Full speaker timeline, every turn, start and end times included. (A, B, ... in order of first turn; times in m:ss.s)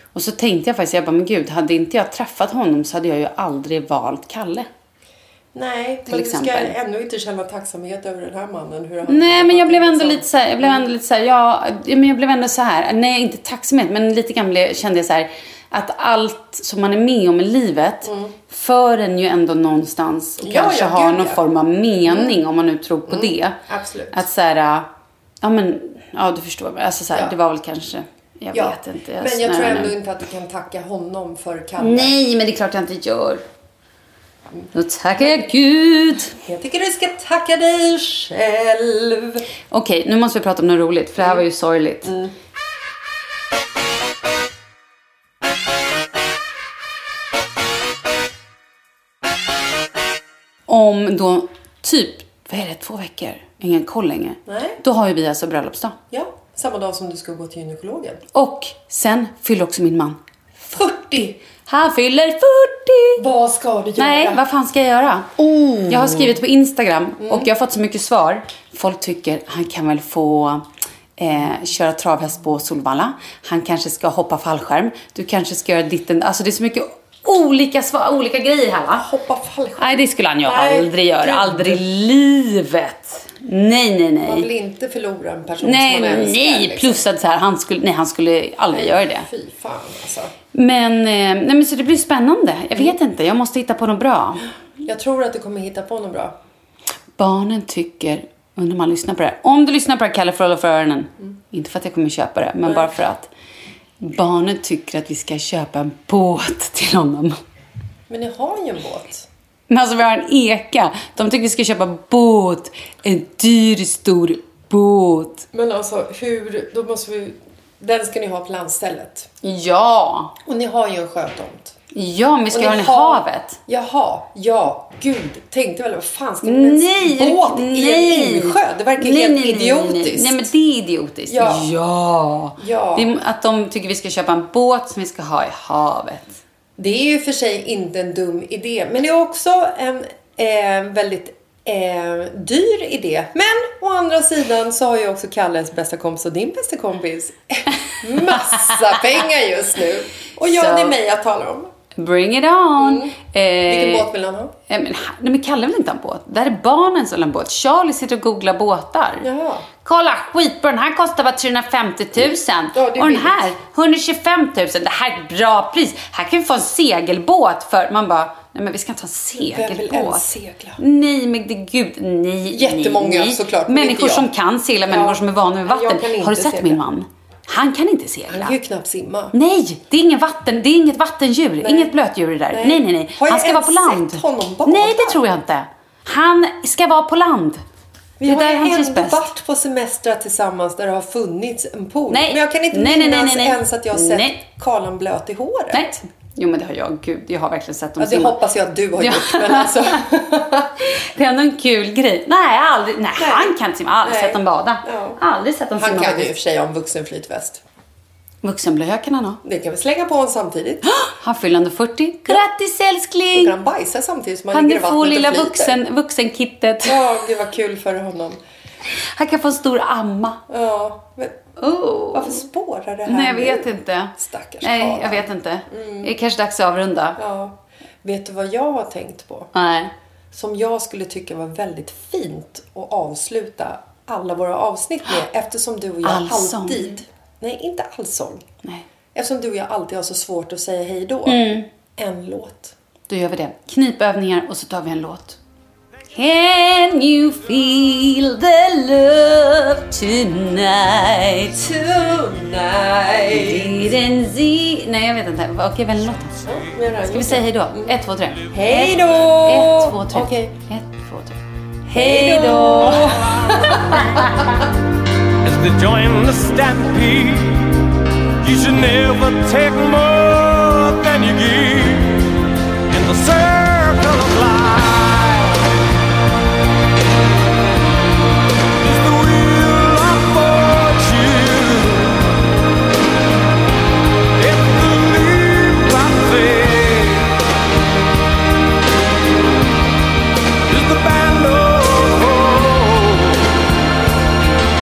0:00.1-0:04.7 A
0:05.5-0:10.9 B
0:06.1-0:06.7 A
0:09.1-0:23.6 A
0:18.0-0:18.4 B
0:20.4-0:21.4 B
0:22.1-0:22.4 B
0:23.1-0:24.2 B
0:24.1-0:24.9 A
0:25.4-0:30.0 A
0:28.5-0:32.1 B
0:31.8-0:33.4 A
0:34.5-0:35.5 B
0:34.7-0:36.4 A
0:36.4-0:39.4 B
0:39.7-0:42.1 A
0:41.2-0:41.4 B
0:42.0-0:42.3 B
0:50.7-0:56.0 A
0:54.4-0:54.8 B
0:56.1-0:58.2 B
0:58.3-1:00.2 A
1:00.6-1:01.4 B
1:01.5-1:03.2 A
1:03.2-1:04.4 B
1:04.0-1:05.3 A
1:05.4-1:06.4 B
1:05.9-1:10.6 A
1:07.2-1:07.5 B
1:11.2-1:19.0 A
1:18.9-1:21.8 B
1:19.8-1:24.5 A
1:24.2-1:27.0 B
1:25.6-1:29.3 A
1:28.7-1:30.3 B
1:30.5-1:34.4 A
1:34.8-1:36.4 B
1:37.2-1:43.3 A
1:42.6-1:43.0 B
1:44.0-1:47.4 A
1:48.1-1:49.3 B
1:49.7-1:55.4 A
1:55.5-1:59.3 B
1:59.4-2:00.3 A
2:00.4-2:01.8 B
2:01.9-2:03.6 A
2:02.5-2:10.5 B
2:06.4-2:16.4 A
2:11.3-2:11.7 B
2:12.6-2:13.1 B
2:16.8-2:31.7 B
2:30.4-2:31.0 A
2:32.0-2:34.1 A
2:32.8-2:34.5 B
2:34.7-2:39.3 A
2:39.2-2:39.7 B
2:39.8-2:58.5 A
2:42.7-2:43.6 B
2:49.4-2:50.8 B
2:52.5-2:54.3 B
2:54.9-2:56.8 B
2:58.3-2:59.3 B
2:59.3-3:07.6 A
3:01.6-3:01.9 B
3:02.5-3:05.2 B
3:08.2-3:15.8 B
3:08.2-3:09.2 A
3:12.1-3:14.4 A
3:15.7-3:18.4 A
3:18.0-3:20.7 B
3:19.0-3:20.0 A
3:20.8-3:26.3 A
3:23.2-3:25.2 B
3:25.8-3:27.6 B
3:28.4-3:29.4 A
3:29.4-3:30.9 B
3:30.9-3:33.5 A
3:33.3-3:35.8 B
3:34.5-3:37.1 A
3:36.8-3:38.4 B
3:38.9-3:40.4 A
3:40.5-3:41.4 B
3:41.6-3:42.4 A
3:42.1-3:46.1 B
3:43.0-3:47.2 A
3:47.2-3:49.5 B
3:49.5-3:49.9 A
3:50.3-3:58.4 B
3:56.0-3:56.9 A
3:59.1-4:02.7 B
4:01.2-4:01.7 A
4:03.1-4:05.4 A
4:06.1-4:11.7 A
4:11.4-4:13.9 B
4:13.3-4:16.4 A
4:16.4-4:18.0 B
4:17.1-4:24.5 A
4:18.5-4:20.5 B
4:21.9-4:24.2 B
4:25.4-4:35.7 C
4:38.8-4:42.3 C
4:44.4-4:47.4 C
4:50.7-4:53.4 C